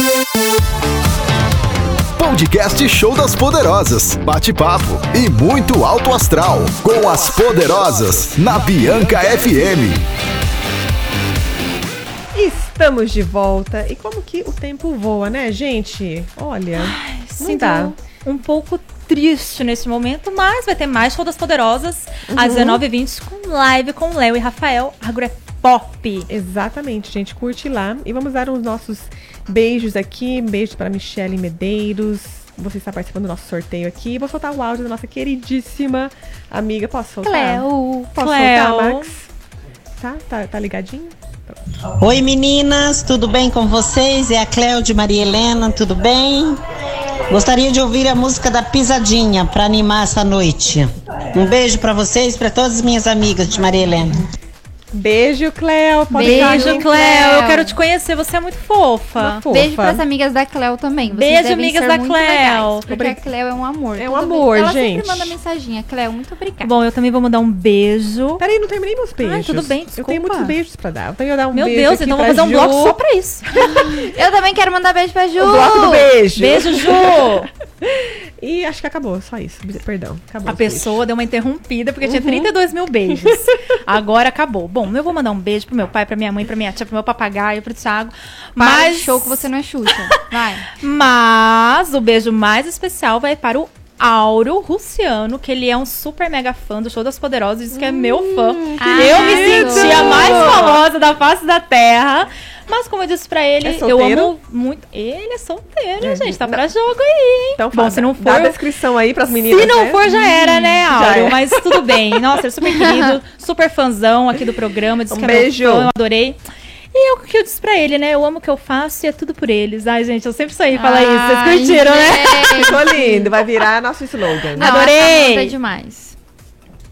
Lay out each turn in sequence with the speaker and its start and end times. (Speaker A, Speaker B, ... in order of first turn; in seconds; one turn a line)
Speaker A: 2.2-10.0
Speaker B: 12.3-17.9
Speaker C: 16.8-26.3
Speaker B: 22.3-22.8
Speaker B: 26.3-39.3
Speaker D: 37.2-38.1
Speaker C: 38.2-39.1
Speaker B: 39.9-41.6
Speaker E: 42.0-46.6
Speaker E: 47.3-54.3
Speaker B: 54.9-56.9
Speaker C: 56.1-59.4
Speaker D: 56.1-57.8
Speaker B: 59.2-60.0
Speaker D: 59.5-66.7
Speaker C: 61.1-62.9
Speaker B: 62.9-63.2
Speaker B: 64.0-65.4
Speaker C: 66.6-68.4
Speaker B: 68.4-73.0
Speaker C: 69.2-70.6
Speaker C: 71.5-73.9
Speaker D: 73.6-76.1
Speaker B: 75.4-81.0
Speaker C: 76.4-77.5
Speaker C: 80.5-89.5
Speaker B: 82.0-82.5
Speaker B: 83.1-83.4
Speaker D: 88.6-90.8
Speaker C: 90.8-108.6
Speaker B: 97.7-100.8
Speaker D: 98.8-100.7
Speaker B: 103.6-104.3
Speaker B: 106.0-106.7
Speaker B: 107.6-111.6
Speaker C: 109.4-116.4
Speaker B: 115.1-115.9
Speaker C: 116.9-123.0
Speaker D: 120.8-123.2
Speaker B: 122.4-124.8
Speaker D: 124.6-126.2
Speaker C: 124.6-125.6